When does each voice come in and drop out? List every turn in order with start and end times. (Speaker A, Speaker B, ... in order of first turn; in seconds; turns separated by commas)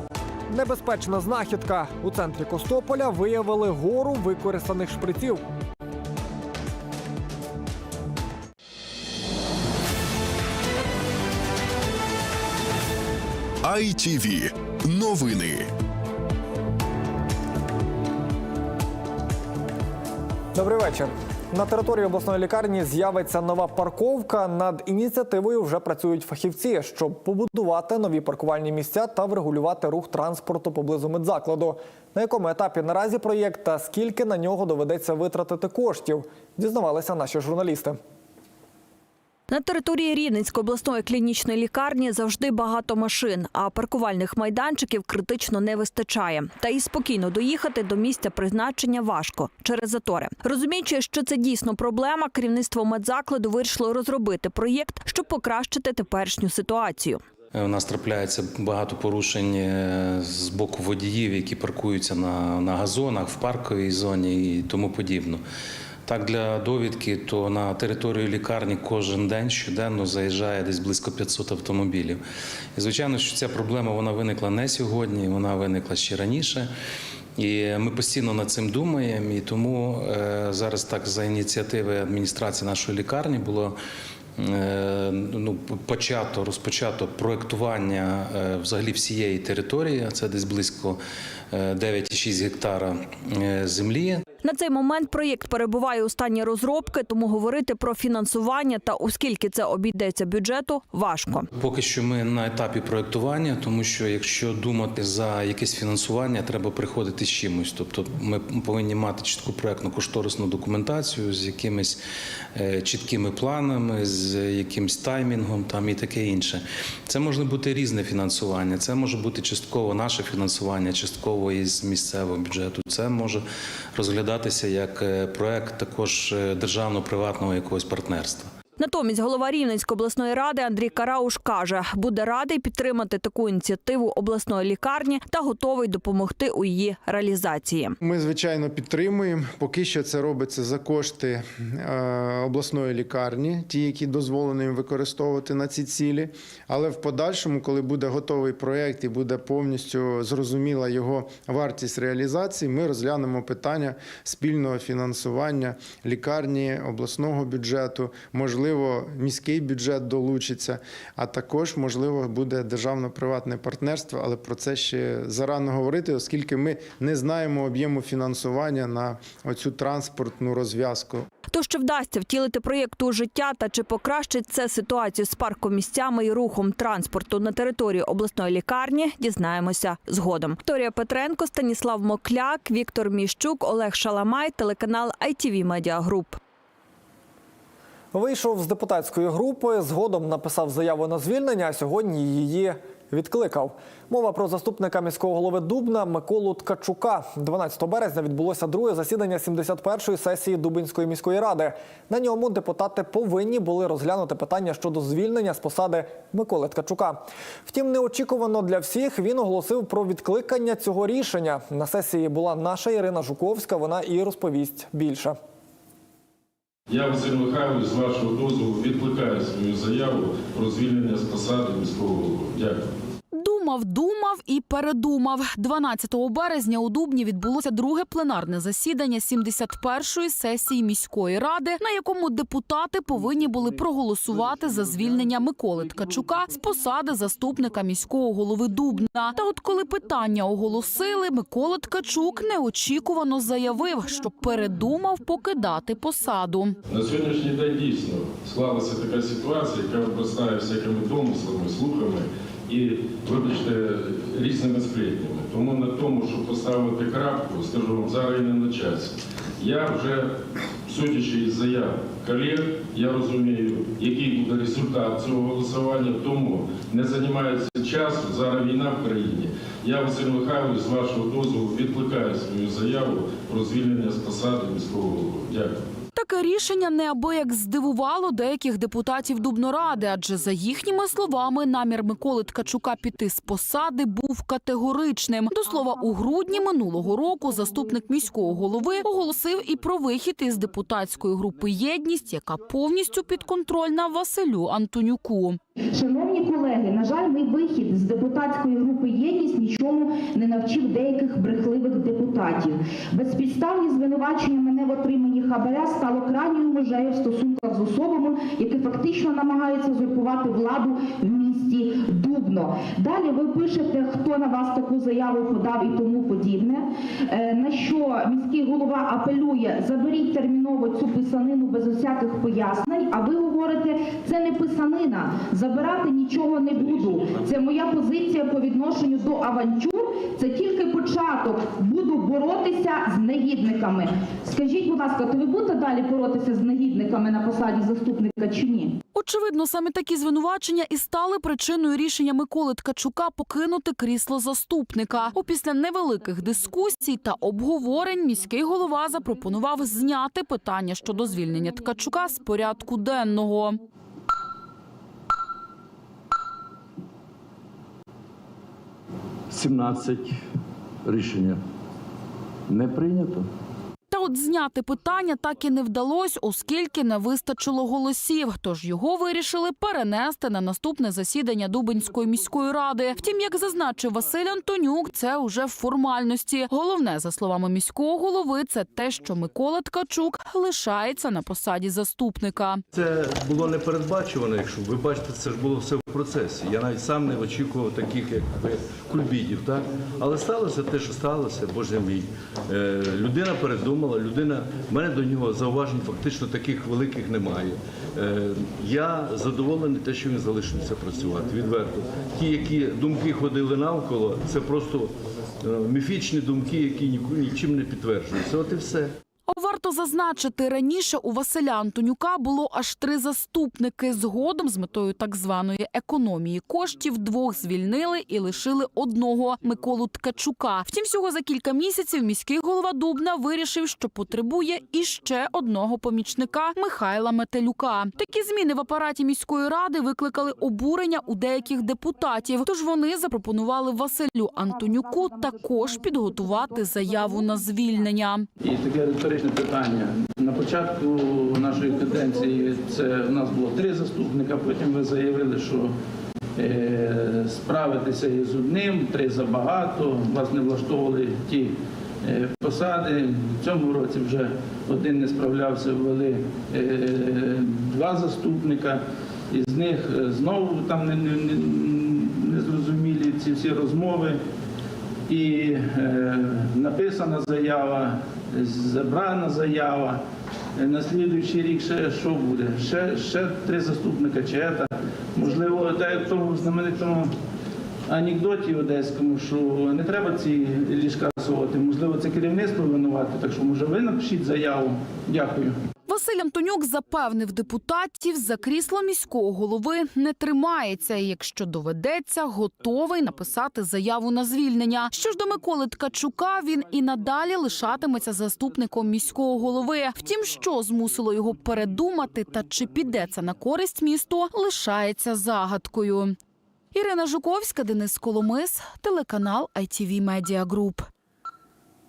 Speaker A: 0.5-5.4, Speaker B: 13.6-15.7, Speaker A: 20.5-38.0, Speaker C: 39.5-57.2, Speaker D: 57.5-65.4, Speaker D: 66.0-72.2, Speaker D: 72.8-76.7, Speaker D: 77.4-83.8, Speaker D: 84.4-91.0, Speaker D: 91.5-94.2, Speaker C: 94.4-101.4, Speaker D: 101.5-112.0, Speaker D: 112.5-128.5, Speaker C: 128.8-137.9, Speaker E: 138.0-171.2, Speaker C: 171.5-186.4, Speaker A: 188.1-215.3, Speaker F: 216.9-222.9, Speaker G: 223.3-246.8, Speaker F: 246.9-260.3, Speaker F: 260.9-275.8, Speaker G: 276.1-295.6, Speaker H: 295.9-339.0, Speaker G: 339.1-353.8, Speaker I: 359.5-360.4, Speaker I: 361.0-361.6, Speaker I: 362.7-363.5, Speaker G: 364.1-382.8, Speaker I: 382.9-409.1, Speaker G: 409.5-438.4, Speaker J: 438.6-445.9, Speaker J: 446.6-464.4, Speaker J: 465.3-470.2, Speaker J: 470.8-477.3, Speaker J: 478.1-485.8, Speaker G: 486.1-506.4, Speaker G: 506.9-511.1